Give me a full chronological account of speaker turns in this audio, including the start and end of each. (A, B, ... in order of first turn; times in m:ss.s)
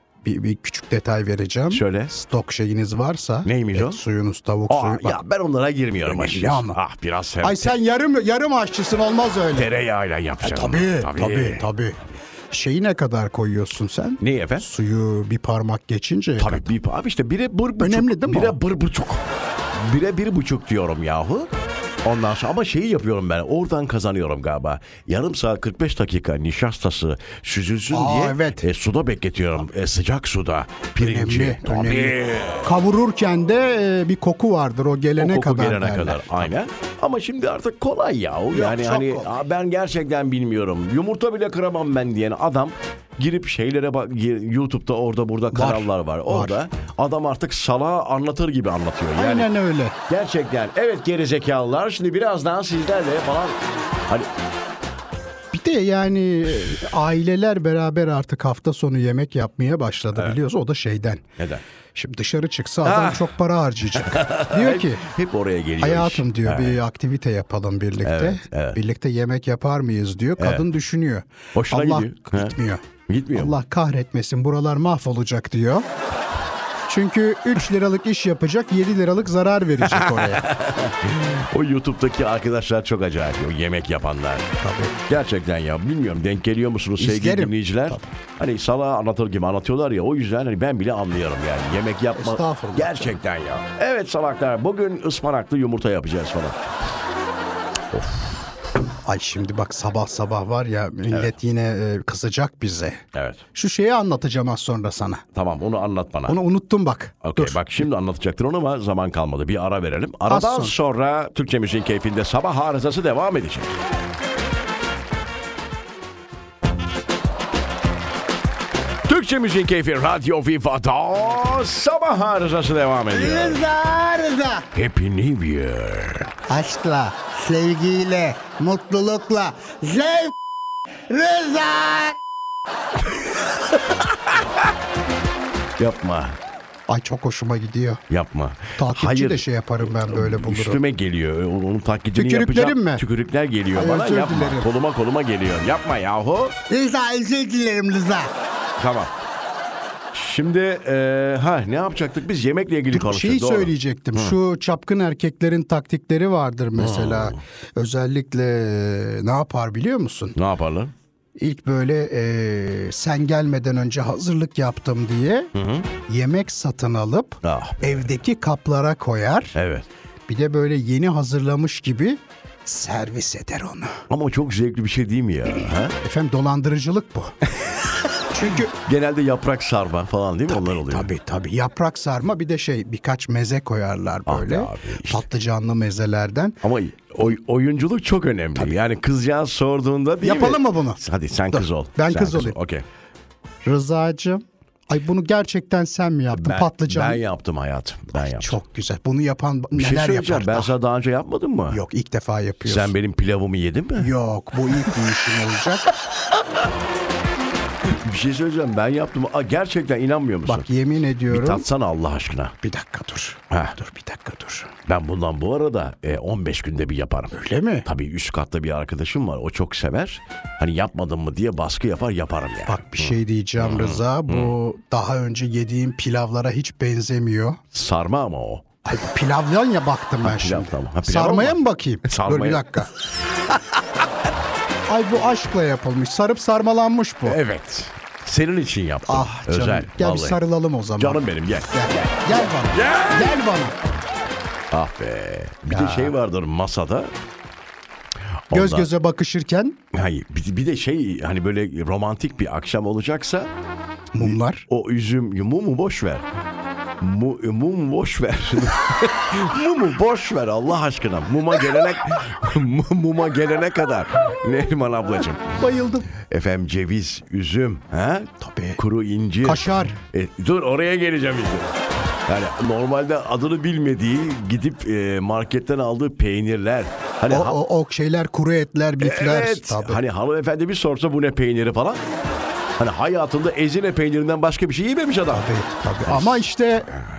0:00.2-0:05.2 A
0:01.7-0:02.1 B
0:03.4-0:04.0 B
0:04.7-0:07.8 B
0:06.0-0:06.8 A
0:07.4-0:09.7 A
0:09.5-0:11.7 B
0:10.4-0:12.0 A
0:12.5-0:16.7 A
0:14.2-0:14.7 B
0:16.4-0:21.5 B
0:17.8-0:18.6 A
0:22.0-0:32.8 B
0:27.9-0:28.6 A
0:31.0-0:36.5 A
0:35.2-0:49.5 B
0:38.5-0:39.3 A
0:45.5-0:46.6 A
0:49.2-0:50.0 A
0:50.1-0:54.3 B
0:55.5-1:01.2 A
1:01.4-1:01.6 B
1:02.0-1:05.0 A
1:02.8-1:03.3 B
1:03.9-1:06.8 B
1:05.8-1:15.9 A
1:08.0-1:08.8 B
1:10.4-1:10.6 B
1:11.5-1:12.6 B
1:13.1-1:13.6 B
1:16.9-1:20.4 A
1:19.8-1:24.5 B
1:24.6-1:25.0 A
1:25.1-1:36.6 B
1:27.0-1:28.1 A
1:32.2-1:33.2 A
1:37.9-1:38.5 B
1:39.0-1:43.0 A
1:43.1-1:43.4 B
1:43.5-1:45.2 A
1:45.3-1:46.4 B
1:46.3-1:47.6 A
1:47.2-1:53.8 B
1:50.3-1:50.8 A
1:59.0-2:03.6 B
2:03.1-2:04.7 A
2:04.7-2:06.3 B
2:06.5-2:10.4 A
2:11.1-2:12.2 A
2:13.9-2:14.7 B
2:15.8-2:16.4 B
2:16.9-2:18.0 A
2:18.1-2:26.6 B
2:18.8-2:20.8 A
2:22.2-2:23.0 A
2:23.8-2:24.7 A
2:26.7-2:28.3 A
2:28.8-2:29.1 B
2:30.1-2:34.4 B
2:32.9-2:40.4 A
2:36.8-2:37.4 B
2:40.4-2:40.9 B
2:41.4-2:45.5 A
2:45.5-2:45.9 B
2:46.1-2:49.6 A
2:47.4-2:48.0 B
2:49.5-2:49.9 B
2:50.3-2:54.0 A
2:54.1-2:56.0 B
2:56.0-2:57.4 A
2:58.2-2:58.7 A
2:58.4-3:01.1 B
3:00.5-3:06.6 A
3:04.3-3:05.3 B
3:06.6-3:12.9 B
3:10.2-3:11.0 A
3:11.5-3:12.6 A
3:13.6-3:17.2 A
3:16.4-3:18.6 B
3:18.2-3:20.7 A
3:19.7-3:21.8 B
3:21.7-3:22.9 A
3:22.6-3:24.1 B
3:24.0-3:25.9 A
3:27.8-3:30.7 B
3:30.4-3:31.7 A
3:31.3-3:32.6 B
3:32.6-3:34.7 A
3:33.5-3:33.8 B
3:34.9-3:44.5 B
3:37.3-3:37.9 A
3:42.7-3:47.6 A
3:47.7-3:48.6 B
3:48.8-3:52.9 A
3:50.2-3:52.7 B
3:54.9-3:57.4 A
3:57.2-4:00.4 B
3:59.1-4:03.8 A
4:01.0-4:03.4 B
4:04.7-4:07.1 B
4:05.7-4:06.1 A
4:08.5-4:08.9 B
4:08.5-4:09.8 A
4:09.9-4:13.5 B
4:14.1-4:14.6 A
4:14.2-4:16.3 B
4:17.0-4:25.6 B
4:25.6-4:26.1 A
4:26.1-4:31.7 B
4:28.4-4:28.8 A
4:29.4-4:30.0 A
4:32.3-4:37.6 B
4:37.3-4:40.0 A
4:39.0-4:42.0 B
4:42.8-4:45.5 B
4:45.3-4:47.0 A
4:46.0-4:46.4 B